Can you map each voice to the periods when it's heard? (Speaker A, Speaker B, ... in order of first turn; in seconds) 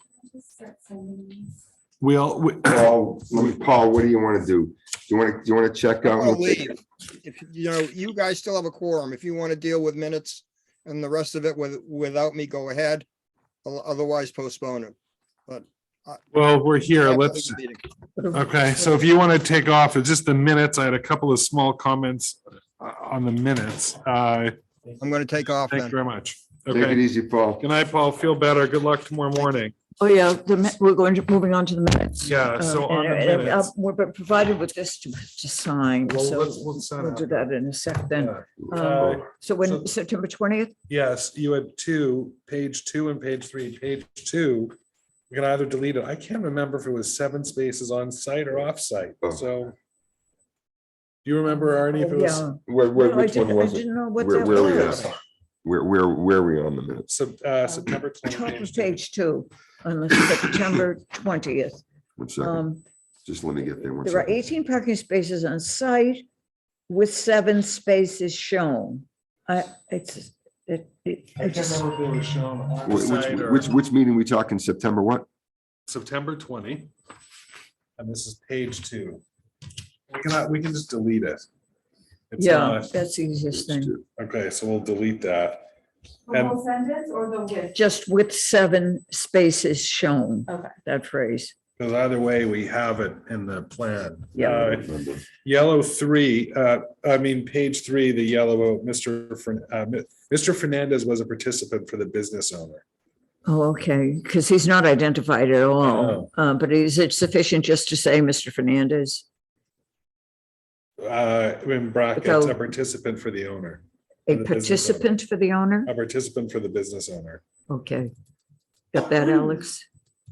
Speaker A: 0.6-1.5, 86.3-87.6
Speaker B: 2.0-2.8, 16.3-17.6, 18.3-24.6, 25.6-27.0, 27.6-29.8, 32.2-33.7, 36.1-37.5, 38.2-39.9, 40.9-44.8, 45.3-49.8, 51.2-52.5, 57.1-59.0, 71.4-73.7, 75.9-76.9, 78.0-79.2, 80.1-81.5, 82.3-82.9, 84.2-85.7, 86.3-86.7, 91.8-94.9, 95.4-102.8, 105.8-106.3, 111.0-115.1, 115.8-117.4
Speaker C: 2.6-6.8, 26.7-27.6, 52.7-55.1, 55.6-57.1, 62.2-62.6, 63.2-64.3, 72.8-75.3, 94.8-95.2
Speaker D: 6.1-13.1, 13.6-14.9, 15.5-16.2, 17.0-17.8, 25.0-25.9
Speaker E: 30.0-40.8, 51.9-55.1, 57.7-61.8, 62.4-62.8, 64.0-66.2, 66.9-71.8, 82.4-84.0, 87.6-91.5, 94.3-94.8, 103.5-109.2, 112.2-112.6, 114.3-115.9, 117.7-118.1, 118.9-119.9